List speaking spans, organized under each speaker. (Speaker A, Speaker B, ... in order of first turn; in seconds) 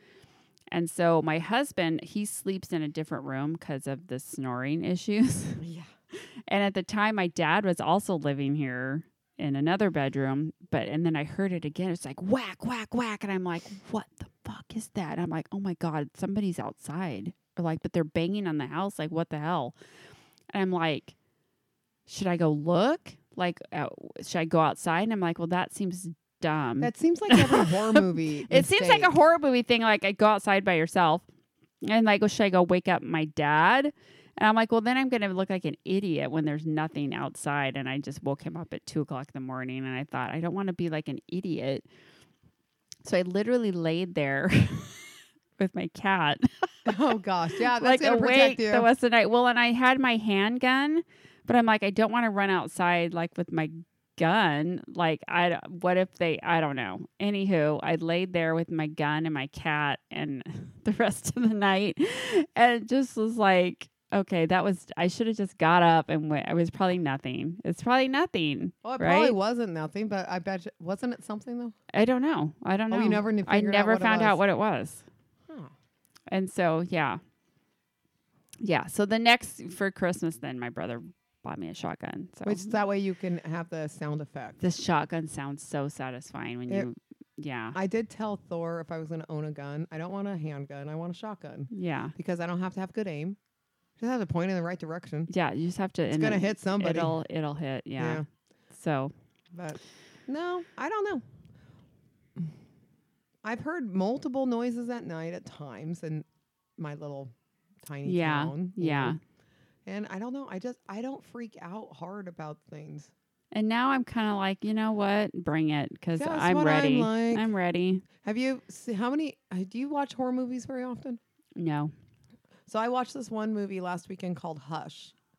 Speaker A: 0.7-5.6, 6.5-19.8, 20.5-21.1, 22.1-31.2, 31.8-41.9, 43.0-46.9, 47.7-69.4, 71.9-75.0, 76.3-77.2, 78.6-82.8, 84.6-87.8, 91.7-92.2, 95.3-99.1, 108.0-109.2, 113.5-118.0, 121.6-121.9
Speaker B: 5.6-5.9, 26.8-29.2, 46.9-48.9, 68.8-71.8, 72.9-74.4, 82.5-84.6, 87.8-93.4, 94.0-95.3, 96.1-97.2, 98.0-98.2, 99.5-101.2, 103.4-106.3, 106.8-107.3, 107.8-109.2, 109.9-113.1, 116.2-117.5, 118.2-121.2, 122.7-125.1